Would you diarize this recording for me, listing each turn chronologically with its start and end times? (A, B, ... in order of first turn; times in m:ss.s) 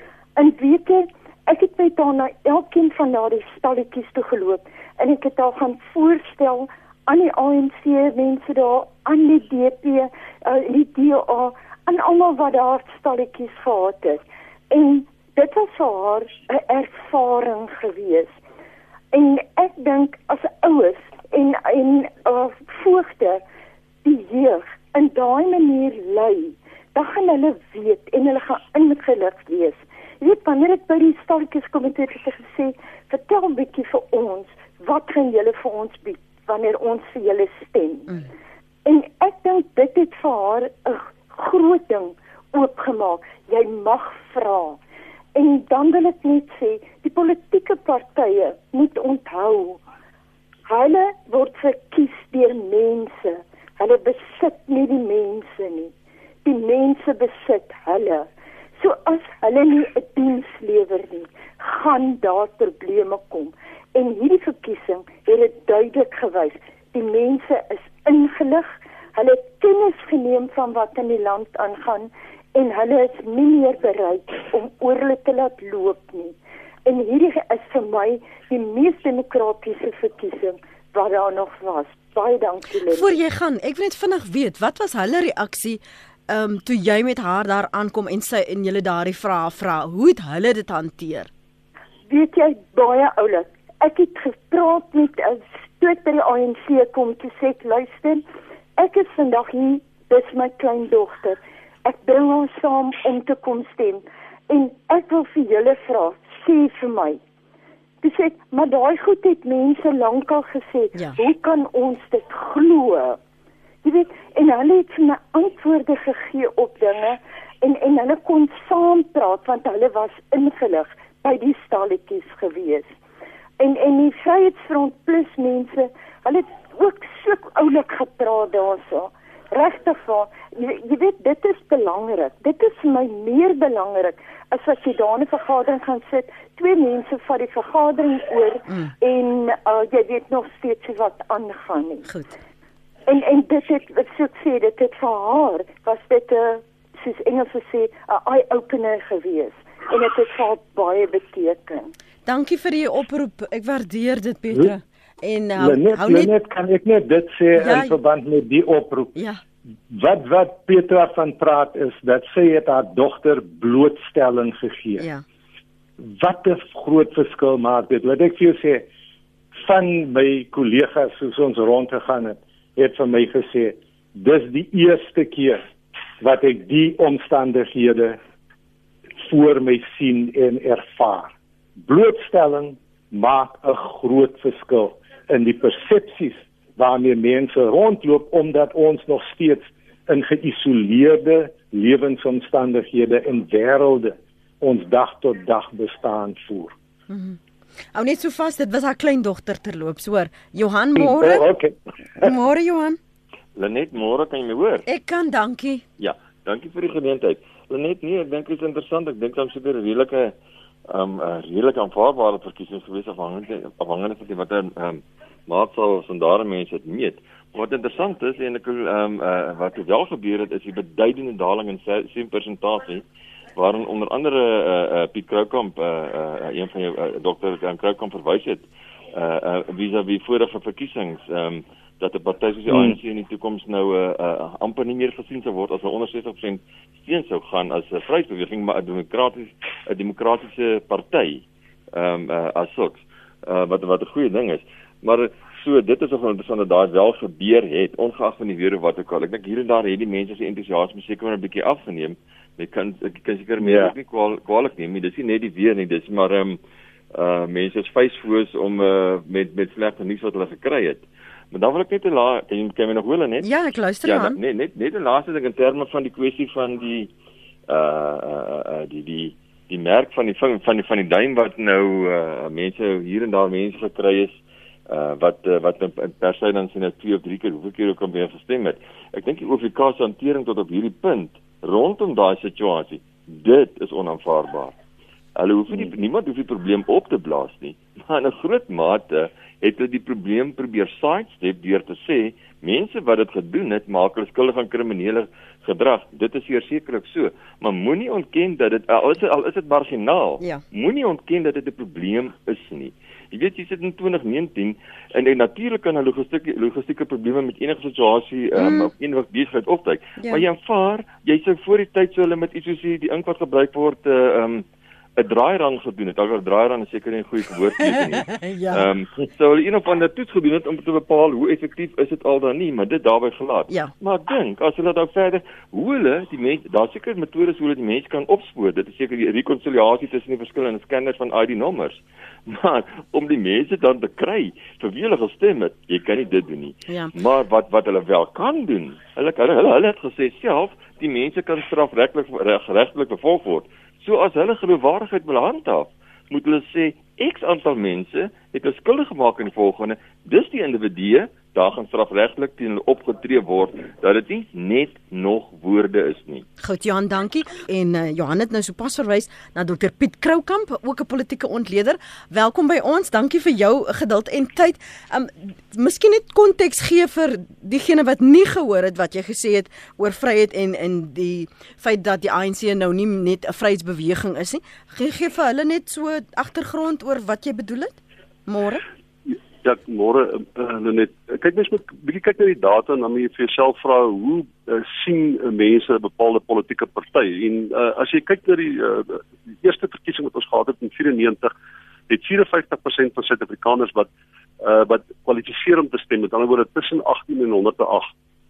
0:00.4-0:18.3 A
0:19.1-0:23.4 A
0:24.0-0:38.2 A
0:38.8-0:44.8 A
0:45.3-0:49.8 A
0:50.7-0:55.9 A
0:56.4-0:58.3 A
0:58.8-1:16.3 A
1:16.8-1:23.1 A
1:22.9-1:31.3 B
1:32.1-1:38.2 A
1:38.8-1:47.2 A
1:48.0-1:53.2 A
1:53.8-2:02.9 A
2:03.6-2:22.1 A
2:22.1-2:22.3 B
2:23.1-2:31.9 A
2:32.2-2:36.3 B
2:35.6-2:39.1 C
2:37.6-2:38.0 B
2:39.1-2:39.4 B
2:39.9-2:45.0 C
2:45.0-2:45.2 B
2:46.0-2:48.8 C
2:49.6-2:55.6 C
2:56.2-2:58.2 C
2:59.2-3:16.7 C
3:17.1-3:17.4 B
3:17.9-3:21.4 B
3:21.0-3:21.7 C
3:22.2-3:23.0 B
3:23.5-3:24.8 D
3:24.8-3:25.8 B
3:26.0-3:30.4 D
3:30.9-4:16.6 D
3:52.7-3:53.0 C
4:13.6-4:13.9 C
4:17.1-4:23.5 D
4:23.4-4:24.4 B
4:24.0-4:27.1 D
4:27.7-4:44.8 D
4:45.3-5:14.6 D
5:08.6-5:08.9 B
5:10.2-5:10.4 B
5:15.2-5:56.4 D
5:18.4-5:18.9 B
5:56.6-6:18.8 B
6:19.6-6:31.5 E
6:32.1-6:34.1 E
6:34.6-6:38.1 E